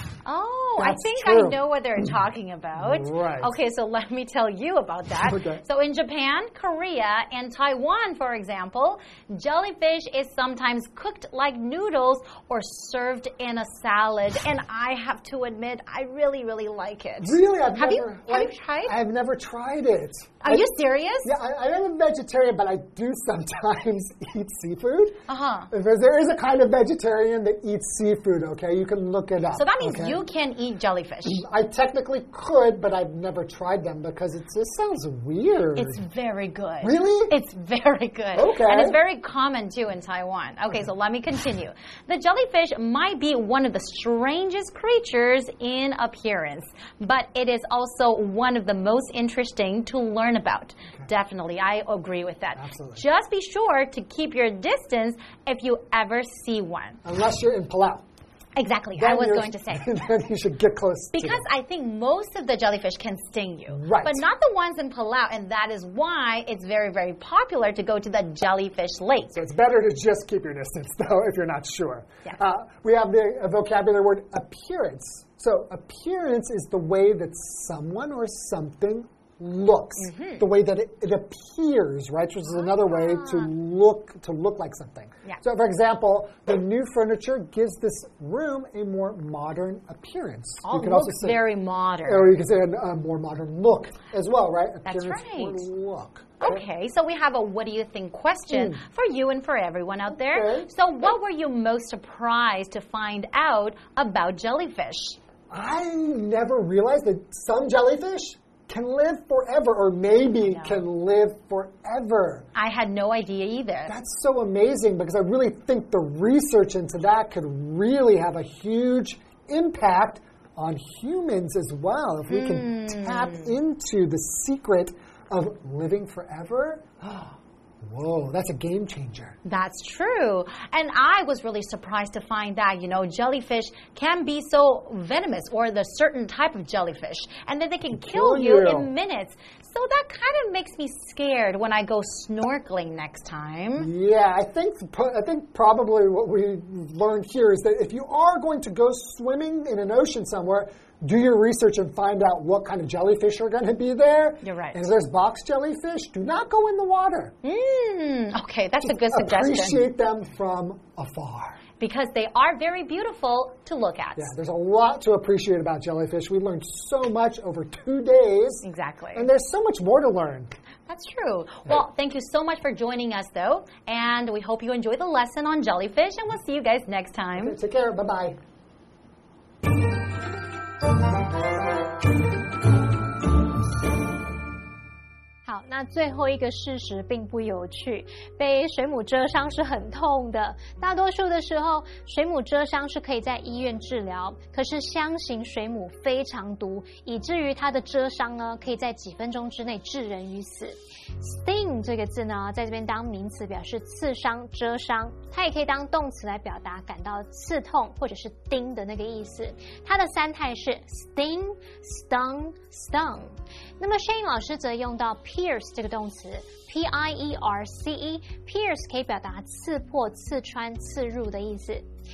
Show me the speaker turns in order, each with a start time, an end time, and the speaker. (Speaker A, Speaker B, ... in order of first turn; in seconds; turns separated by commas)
Speaker A: 0.2-18.9, Speaker B: 0.8-1.6, Speaker B: 2.8-3.5, Speaker B: 5.2-5.6, Speaker B: 17.2-30.3, Speaker A: 20.4-21.3, Speaker A: 25.3-25.7, Speaker A: 29.5-31.4, Speaker B: 31.2-36.0, Speaker A: 35.8-57.0, Speaker B: 36.8-37.3, Speaker B: 38.4-39.0, Speaker B: 52.6-53.0, Speaker B: 57.0-58.0, Speaker A: 58.6-60.0, Speaker B: 59.0-61.5, Speaker A: 61.1-69.4, Speaker B: 63.7-64.2, Speaker B: 69.3-91.4, Speaker A: 80.0-80.5, Speaker A: 82.6-83.5, Speaker A: 90.7-92.3, Speaker B: 92.1-96.6, Speaker A: 94.8-95.7, Speaker A: 96.4-105.2, Speaker B: 98.5-98.8, Speaker B: 100.1-100.7, Speaker B: 105.5-112.5, Speaker A: 110.5-110.8, Speaker A: 112.5-113.9, Speaker B: 113.9-129.4, Speaker A: 122.3-123.5, Speaker A: 129.4-143.9, Speaker B: 137.9-138.9, Speaker B: 143.8-157.4, Speaker A: 154.4-154.8, Speaker A: 157.4-159.8, Speaker B: 158.8-161.6, Speaker A: 161.8-164.3, Speaker B: 164.2-170.6, Speaker A: 168.6-169.3, Speaker A: 170.9-177.6, Speaker B: 177.4-178.4, Speaker C: 185.5-221.9